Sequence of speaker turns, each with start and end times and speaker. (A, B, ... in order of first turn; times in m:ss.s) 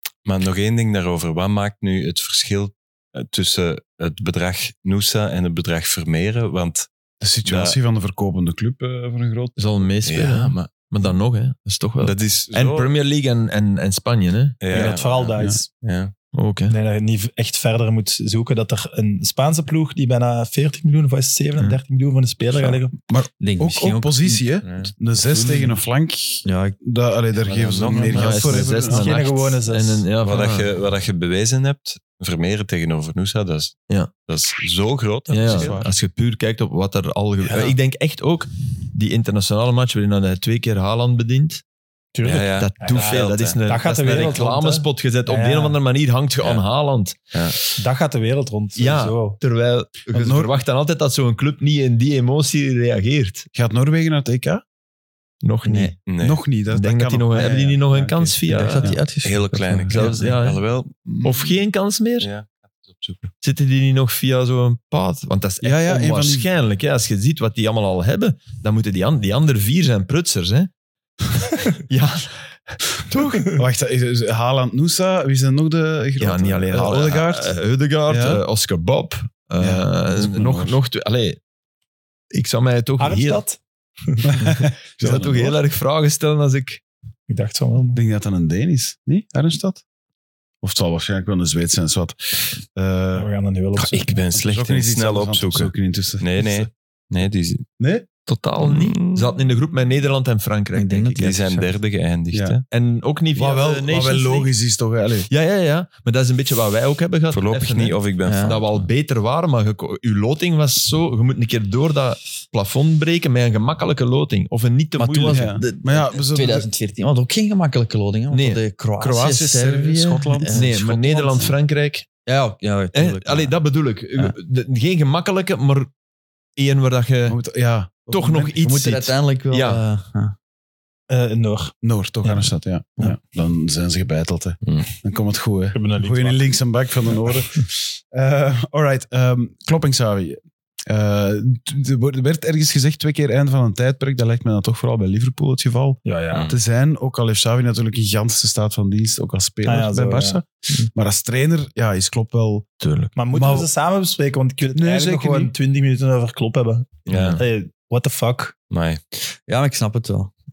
0:00.3-0:06.9 A
0:07.2-0:09.6 B
0:07.5-0:07.8 A
0:09.6-0:14.9 C
0:10.0-0:10.7 A
0:12.0-0:12.9 A
0:14.6-0:16.1 A
0:14.7-0:15.7 D
0:16.3-0:16.8 C
0:16.7-0:23.0 D
0:23.1-0:29.2 B
0:23.4-0:24.4 E
0:24.6-0:24.9 A
0:26.4-0:26.8 E
0:27.5-0:28.7 A
0:27.8-0:28.2 E
0:28.1-0:30.7 C
0:28.9-0:30.1 D
0:30.2-0:35.8 A
0:35.3-0:41.6 C
0:35.4-0:36.0 B
0:42.2-0:45.8 D
0:42.2-0:43.6 A
0:42.3-0:47.7 C
0:47.8-0:49.4 D
0:48.8-0:53.5 C
0:50.1-0:50.5 B
0:53.6-0:54.6 B
0:55.4-0:56.0 C
0:55.6-0:55.9 E
0:56.1-0:56.4 A
0:56.2-0:59.0 B
0:56.7-0:59.0 C
0:58.5-1:00.2 E
0:59.2-1:01.5 A
0:59.9-1:00.6 C
1:01.2-1:02.3 C
1:02.2-1:03.3 A
1:03.4-1:10.7 C
1:05.6-1:06.5 B
1:11.9-1:13.5 C
1:13.4-1:17.5 B
1:16.2-1:21.4 C
1:18.1-1:18.4 B
1:19.6-1:20.8 B
1:22.3-1:23.4 C
1:23.0-1:24.3 D
1:24.2-1:25.6 B
1:24.4-1:26.8 C
1:27.3-1:28.0 D
1:27.9-1:29.8 B
1:30.6-1:33.3 B
1:33.2-1:34.2 D
1:33.8-1:37.6 A
1:34.3-1:36.7 B
1:37.8-1:38.1 B
1:38.3-1:41.4 C
1:38.6-1:39.4 A
1:40.8-1:41.8 E
1:41.2-1:42.6 A
1:42.3-1:42.6 B
1:42.7-1:44.5 C
1:43.3-1:45.3 B
1:45.3-1:55.6 C
1:47.3-1:48.9 A
1:48.2-1:48.6 E
1:55.0-2:00.8 E
1:55.3-1:56.7 B
1:58.3-1:58.6 C
1:59.0-2:01.5 B
2:00.5-2:02.1 C
2:02.3-2:03.6 E
2:02.9-2:05.9 C
2:06.6-2:07.4 C
2:07.3-2:08.7 B
2:08.1-2:09.8 C
2:08.6-2:10.4 E
2:11.1-2:11.7 D
2:11.8-2:32.7 B
2:14.6-2:14.9 A
2:15.7-2:16.5 D
2:26.0-2:26.5 D
2:29.6-2:30.4 D
2:32.8-2:33.1 C
2:33.2-2:38.6 D
2:33.3-2:33.7 B
2:34.7-2:35.5 B
2:37.1-2:37.4 C
2:37.1-2:37.4 A
2:38.7-2:39.0 A
2:39.2-2:40.3 E